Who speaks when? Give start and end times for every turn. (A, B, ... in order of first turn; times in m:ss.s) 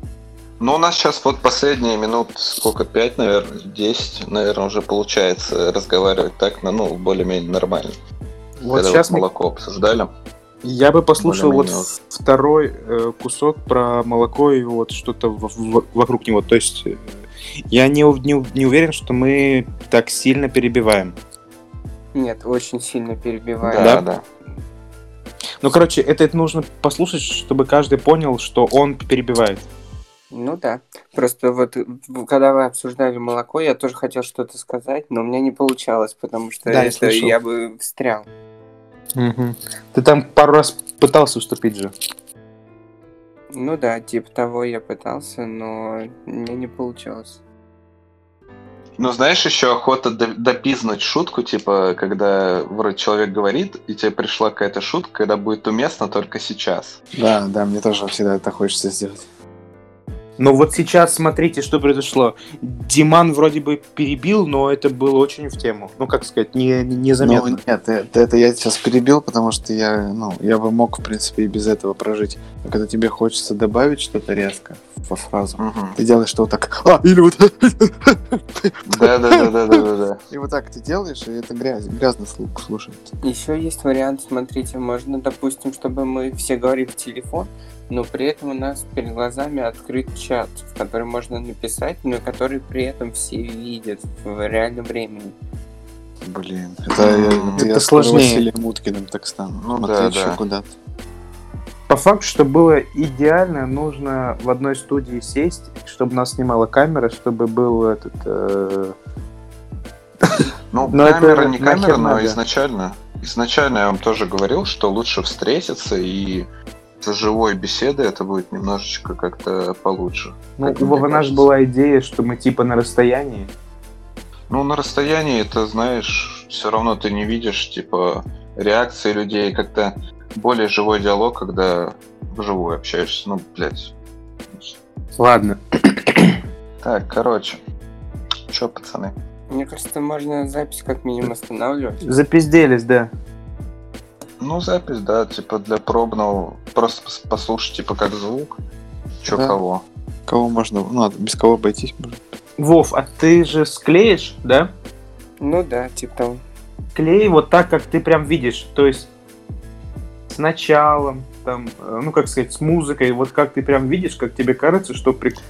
0:00.6-0:07.9 A
0:08.6-0:09.2 B
0:08.7-0:10.1 A
0:10.6-0:17.0 B
0:11.2-0:11.9 A
0:17.7-0:21.1 B
0:22.1-0:24.0 C
0:23.6-0:24.2 A
0:23.8-0:24.0 B
0:25.6-0:29.6 B
0:30.3-0:38.3 C
0:36.7-0:37.3 B
0:39.2-0:41.9 B
0:43.5-0:47.4 C
0:49.0-0:57.0 A
0:57.2-0:59.2 D
1:00.4-1:07.6 B
1:07.2-1:19.8 D
1:15.6-1:16.0 A
1:18.9-1:20.2 A
1:20.3-1:23.0 D
1:23.2-1:35.3 C
1:36.2-1:40.7 D
1:37.0-1:37.6 A
1:37.6-1:38.5 B
1:39.6-1:40.4 A
1:41.9-1:48.9 B
1:50.7-1:56.5 A
1:50.9-1:52.4 B
1:57.0-2:01.5 A
2:00.6-2:03.5 B
2:04.5-2:13.9 A
2:15.2-2:16.4 B
2:16.8-2:17.6 A
2:18.5-2:19.1 A
2:19.5-2:22.0 C
2:22.0-2:23.1 B
2:24.4-2:28.5 A
2:29.2-2:29.8 A
2:29.3-2:29.6 D
2:30.3-2:32.2 D
2:32.6-2:34.7 B
2:35.4-2:36.4 C
2:36.9-2:39.1 B
2:40.3-2:45.4 B